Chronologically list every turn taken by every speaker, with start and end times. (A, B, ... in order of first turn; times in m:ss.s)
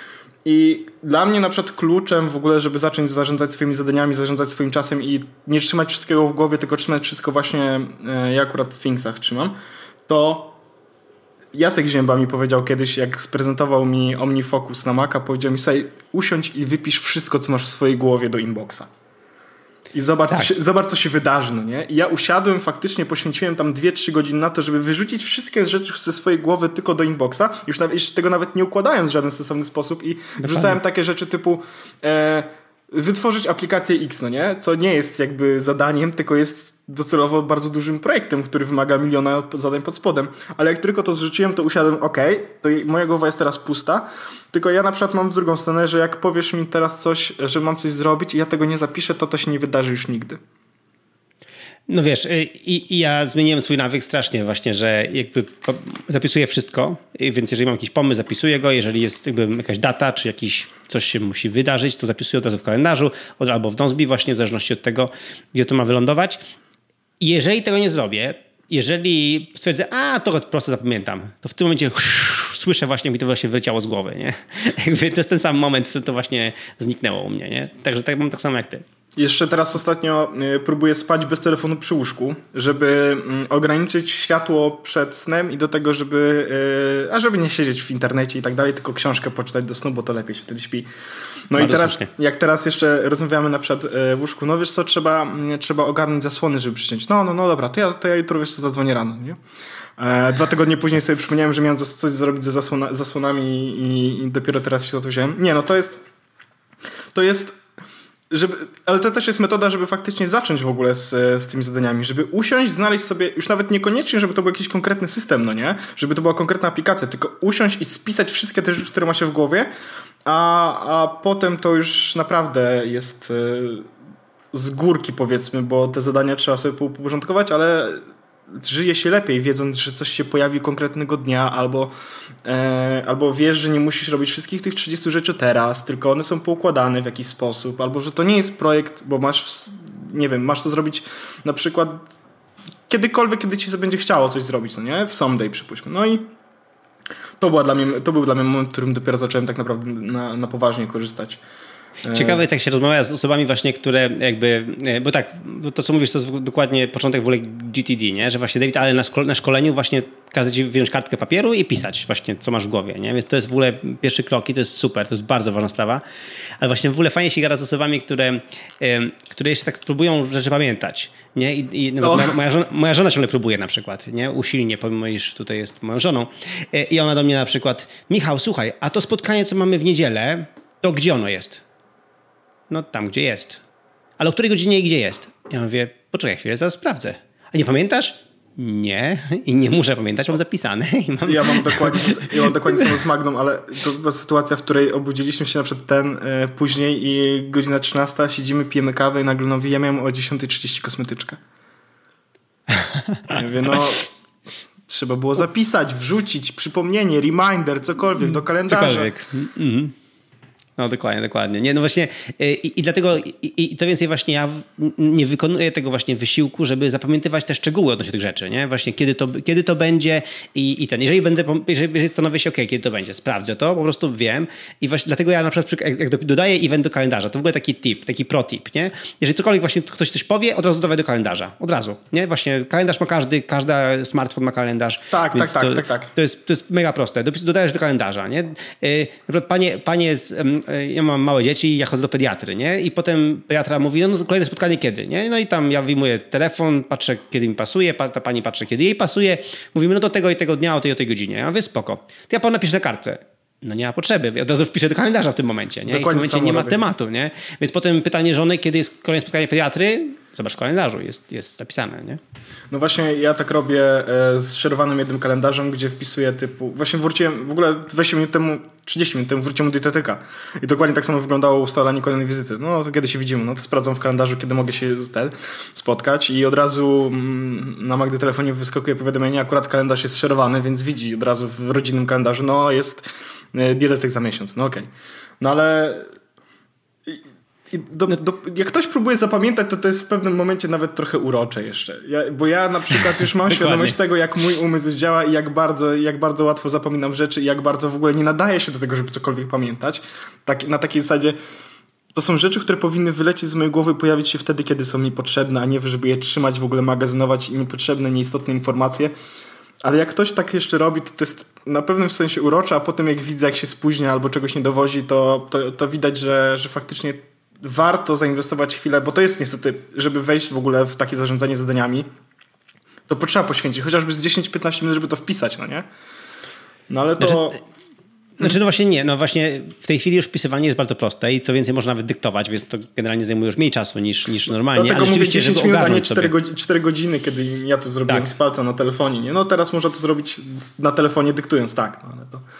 0:00.4-0:09.6 A
0:10.1-0:10.6 A
0:11.5-0:18.9 A
0:19.9-0:50.4 A
0:30.4-0:30.8 B
0:51.9-1:06.4 B
1:07.2-1:18.8 B
1:19.2-1:30.9 A
1:31.5-1:39.4 A
1:31.5-1:32.1 B
1:40.0-1:46.0 A
1:47.1-1:47.6 A
1:48.3-1:59.7 A
2:00.2-2:03.9 A
2:04.5-2:11.9 A
2:12.4-2:22.1 A
2:22.9-2:26.3 A
2:27.4-2:31.4 A
2:32.0-2:32.4 A
2:32.1-2:46.0 B
2:46.6-3:01.6 B
2:52.0-2:52.4 A
3:02.7-3:03.6 B
3:04.2-3:12.9 B
3:11.2-3:21.4 A
3:22.8-3:23.4 B
3:23.3-3:24.1 A
3:24.9-3:29.1 A
3:28.7-3:29.9 B
3:30.8-4:22.2 B
3:55.1-3:56.1 A
4:15.9-4:16.8 A
4:22.7-4:44.9 A
4:45.4-4:46.1 A
4:47.1-5:01.4 A
4:53.5-4:54.0 B
5:02.1-5:09.1 A
5:09.8-5:22.1 A
5:23.1-5:25.8 A
5:26.9-5:27.6 A
5:28.4-5:36.3 B
5:34.7-5:42.4 A